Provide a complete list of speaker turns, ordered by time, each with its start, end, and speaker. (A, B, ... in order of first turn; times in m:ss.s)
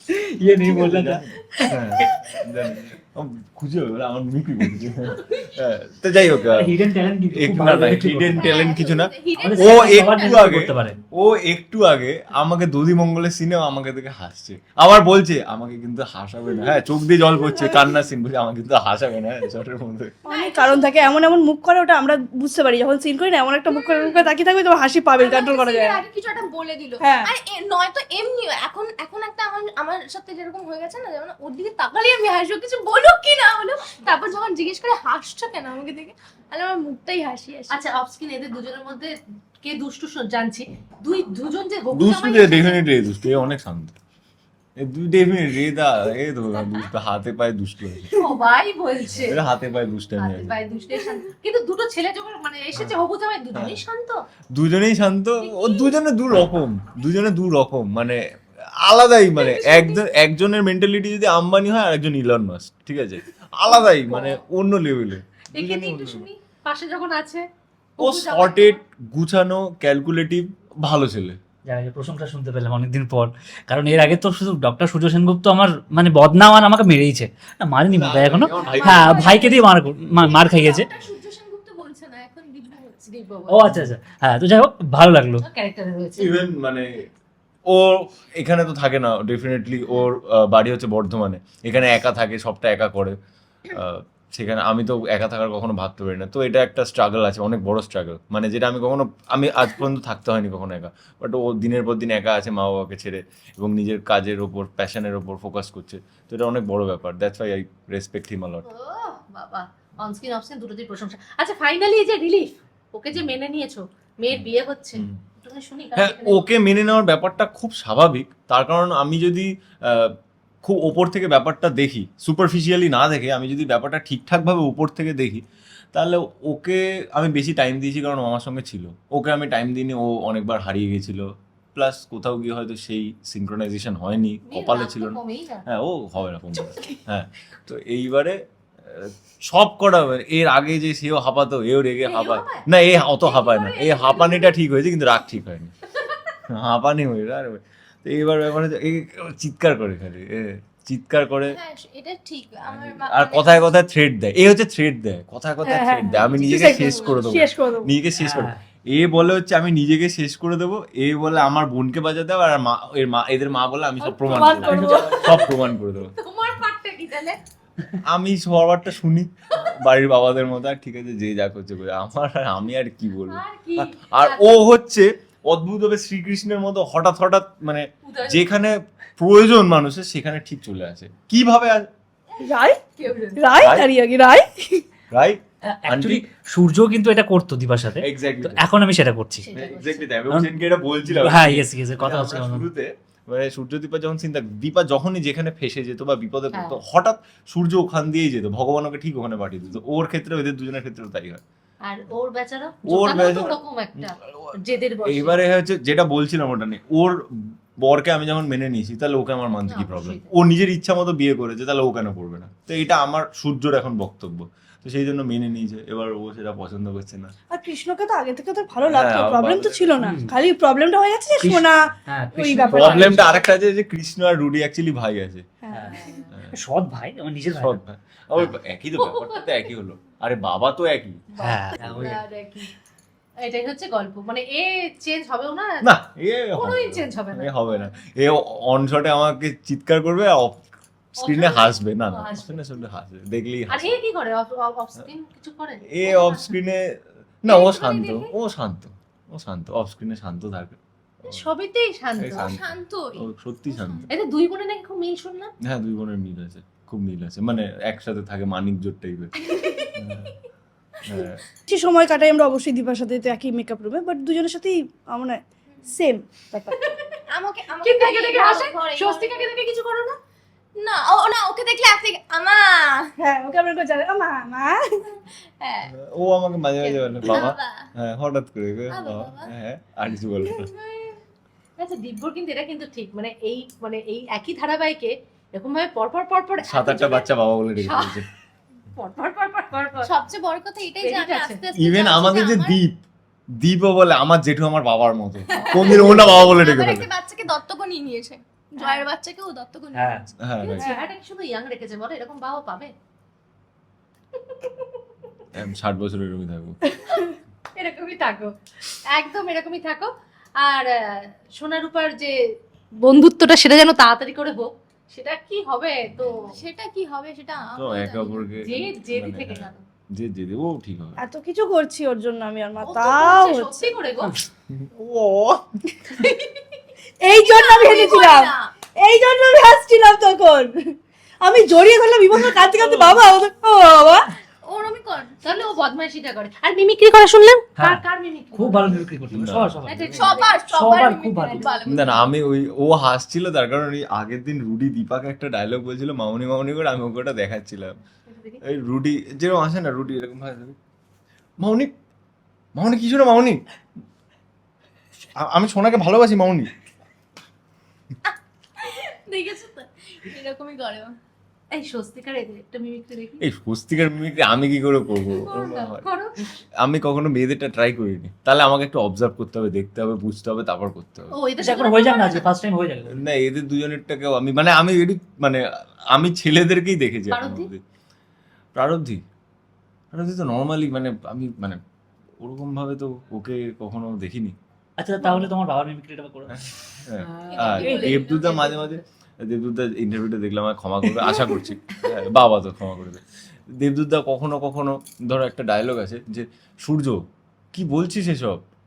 0:00.1-0:01.8 A
0:00.4-0:06.7 B
0:06.6-0:08.6 A
0:07.3-0:20.1 B
0:08.3-0:10.4 C
0:09.4-0:11.0 A
0:20.2-0:26.0 D
0:20.3-0:21.2 C
0:23.7-0:24.3 C
0:25.2-0:37.8 C
0:27.0-0:27.3 D
0:37.7-0:42.8 E
0:41.9-0:44.0 B
0:44.8-0:48.1 B
0:48.1-0:49.4 E
0:49.2-0:50.6 B
0:50.2-0:54.2 E
0:53.5-0:53.8 B
0:54.5-0:58.2 B
0:55.4-0:55.9 E
0:58.8-1:06.3 B
0:59.3-1:00.0 E
1:03.7-1:04.4 E
1:05.5-1:07.4 E
1:08.0-1:08.8 E
1:08.0-1:11.4 B
1:11.6-1:20.9 A
1:17.9-1:19.4 B
1:18.6-1:19.6 E
1:18.7-1:19.6 C
1:20.3-1:21.5 E
1:20.3-1:22.9 C
1:22.6-1:23.7 E
1:23.5-1:25.4 A
1:25.4-1:26.3 E
1:26.2-1:27.1 B
1:27.7-1:33.2 B
1:33.7-1:48.7 B
1:48.7-1:56.5 E
1:54.3-1:55.2 B
1:56.0-2:05.4 B
2:05.9-2:25.7 B
2:14.4-2:15.6 E
2:22.0-2:22.6 E
2:23.2-2:24.5 C
2:26.5-2:31.6 B
2:31.5-2:33.7 C
2:32.7-2:46.1 B
2:35.6-2:37.9 D
2:36.1-2:37.4 C
2:38.2-2:38.6 A
2:44.0-2:45.5 D
2:44.5-2:45.6 E
2:46.2-2:47.4 E
2:48.1-3:01.9 B
2:53.3-2:54.6 E
2:58.0-2:58.5 E
3:02.4-3:02.8 D
3:03.0-3:03.5 E
3:03.4-3:04.8 D
3:03.6-3:03.9 B
3:05.1-3:06.2 B
3:05.7-3:09.5 A
3:08.0-3:08.6 B
3:09.4-3:10.1 E
3:09.6-3:21.4 B
3:11.1-3:12.7 A
3:21.8-3:25.4 E
3:22.8-3:24.5 B
3:25.0-3:37.3 B
3:29.7-3:30.3 E
3:37.5-3:43.3 D
3:38.8-3:40.0 B
3:40.0-3:40.3 A
3:41.4-3:43.3 A
3:42.7-3:45.4 B
3:45.6-3:46.1 D
3:45.7-3:47.8 A
3:47.6-3:51.2 B
3:49.0-3:49.5 E
3:51.3-3:52.7 E
3:51.4-3:52.2 A
3:51.8-3:52.1 B
3:53.4-3:55.8 E
3:55.8-4:00.7 B
3:56.5-3:57.9 E
4:01.2-4:04.0 B
4:01.2-4:02.8 E
4:03.7-4:06.5 E
4:05.8-4:11.4 B
4:07.5-4:08.3 E
4:11.2-4:12.5 E
4:12.2-4:14.1 B
4:12.4-4:14.1 C
4:14.1-4:15.5 E
4:15.6-4:19.3 B
4:19.4-4:20.0 C
4:19.9-4:20.3 B
4:21.0-4:21.4 B
4:21.7-4:27.0 D
4:26.7-4:30.2 C
4:27.8-4:30.0 E
4:30.8-4:33.1 C
4:33.2-4:35.1 D
4:35.6-4:35.9 C
4:35.9-4:40.7 B
4:36.8-4:37.9 C
4:37.2-4:37.5 E
4:38.9-4:39.5 C
4:40.4-4:41.2 C
4:41.8-4:48.2 E
4:46.6-4:48.2 B
4:48.9-4:50.1 E
4:50.0-4:52.8 C
4:51.0-4:51.6 E
4:51.7-4:53.0 B
4:53.6-4:57.1 B
4:55.5-5:00.3 C
4:55.6-4:56.3 E
4:58.8-4:59.1 E
4:59.9-5:00.2 A
5:00.4-5:00.9 B
5:00.6-5:02.9 E
5:00.8-5:01.1 D
5:05.5-5:06.8 B
5:06.8-5:07.2 D
5:07.8-5:08.5 E
5:09.1-5:10.1 E
5:10.6-5:12.3 E
5:13.0-5:16.4 E
5:16.1-5:16.4 B
5:16.5-5:18.5 C
5:17.7-5:21.2 B
5:18.6-5:19.8 E
5:21.2-5:23.9 D
5:22.8-5:24.3 E
5:24.7-5:25.7 B
5:27.2-5:34.3 D
5:27.2-5:28.7 C
5:34.6-5:35.4 C
5:35.4-5:39.1 E
5:37.8-5:41.7 A
5:39.3-5:40.2 B
5:39.9-5:41.9 E
5:40.2-5:42.3 C
5:41.8-5:48.0 B
5:48.3-5:48.6 E
5:48.6-5:50.8 B
5:51.6-5:51.9 B
5:52.7-5:53.6 B
5:55.4-5:56.7 B
5:58.2-6:01.2 C
6:01.7-6:03.4 E
6:03.4-6:06.0 B
6:05.2-6:06.4 E
6:06.8-6:11.3 B
6:11.3-6:12.4 E
6:11.6-6:13.2 A
6:13.1-6:17.8 B
6:17.3-6:17.7 E
6:18.8-6:19.2 B
6:20.1-6:21.8 B
6:22.4-6:24.6 B
6:25.0-6:26.5 A
6:26.5-6:38.6 B
6:27.4-6:28.0 A
6:27.4-6:28.9 C